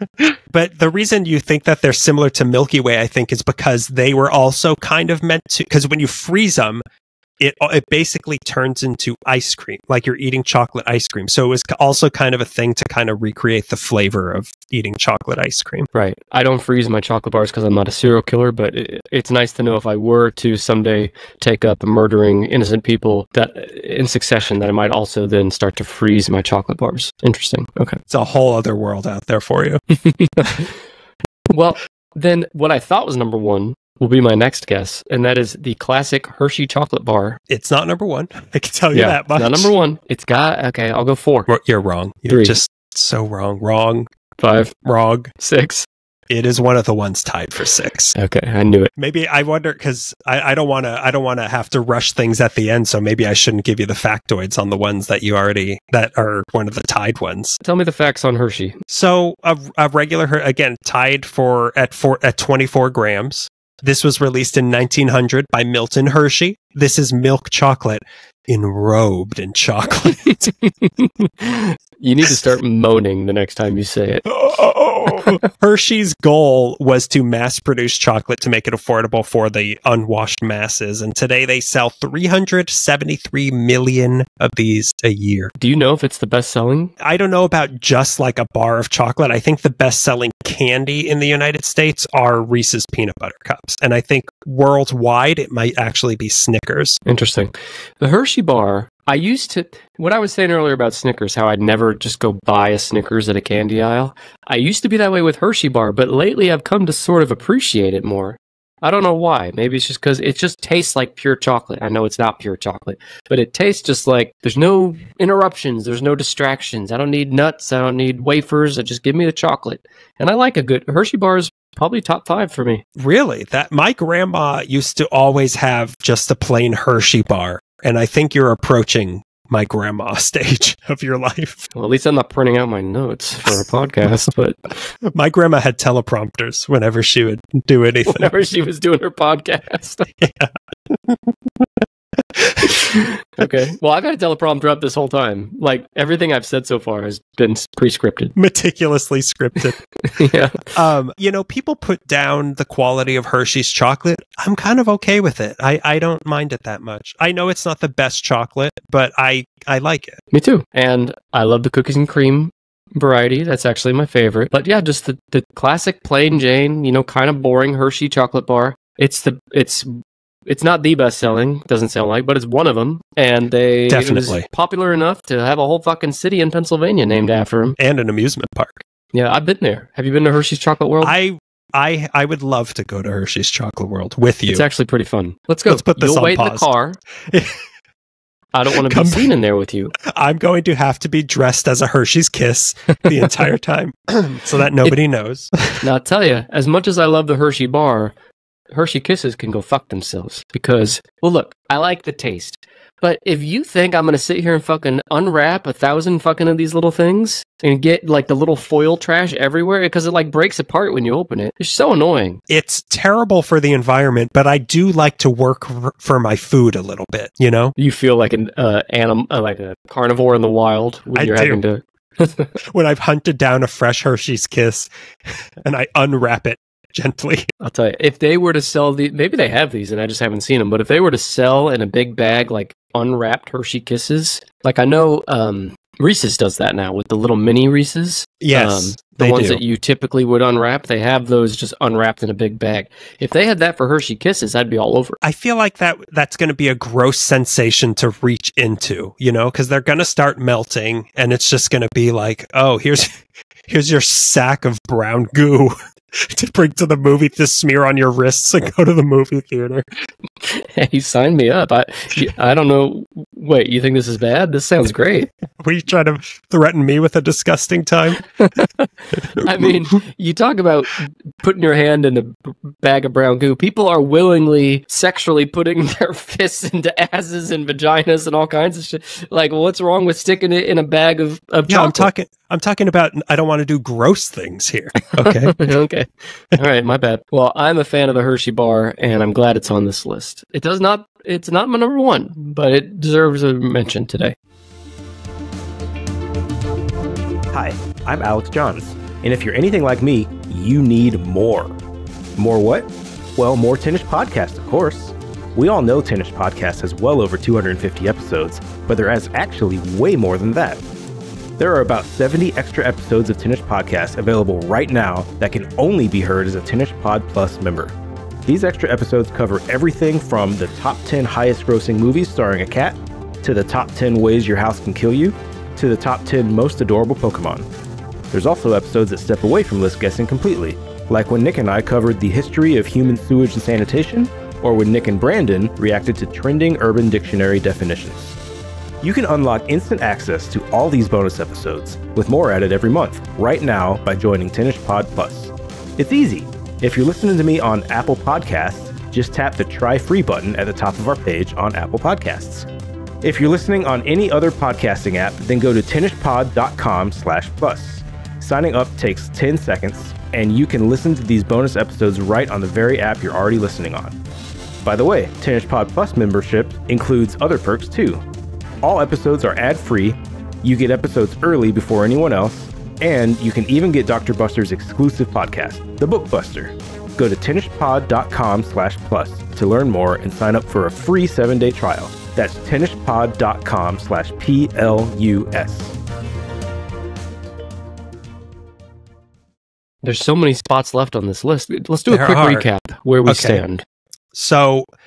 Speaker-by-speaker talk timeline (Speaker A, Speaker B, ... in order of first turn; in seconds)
Speaker A: 0.2-6.8, 7.4-15.9, 28.1-29.8, 37.5-39.7, 41.5-44.1, 44.8-45.3, 46.3-48.1, 49.0-57.6, 58.9-70.5, 74.3-85.5, 87.0-97.0, 123.0-131.7, 135.1-138.3, 140.2-141.3, 142.3-142.8, 148.4-149.8, 150.7-160.2, 173.9-174.5, 177.8-178.8, 181.0-184.6, 185.7-186.7, 187.3-187.6, 188.9-189.3, 190.0-195.8, 212.5-217.8, 221.1-221.6, 222.7-224.9, 225.6-227.5, 238.4-239.6, 245.2-259.9, 265.6-268.2, 281.7-285.6, 392.1-392.7, 393.3-393.6, 394.3-394.9
Speaker B: 15.9-28.0, 30.1-30.7, 31.5-37.4, 38.9-41.5, 42.3-42.6, 44.4-44.8, 45.4-45.9, 48.2-48.9, 57.6-58.8, 70.3-74.3, 85.6-86.9, 97.1-122.8, 131.8-134.8, 138.1-140.1, 142.8-148.3, 150.0-150.7, 160.3-177.8, 179.1-181.1, 184.5-187.0, 188.5-189.9, 195.8-198.1, 198.7-212.4, 217.8-222.6, 227.6-245.2, 260.4-265.3, 268.4-282.1, 285.2-294.4, 390.0-393.8
Speaker C: 297.5-301.8, 302.4-310.8, 311.6-317.9, 318.5-327.7, 328.3-338.3, 339.0-352.7, 353.2-364.2, 364.8-368.2, 368.8-385.9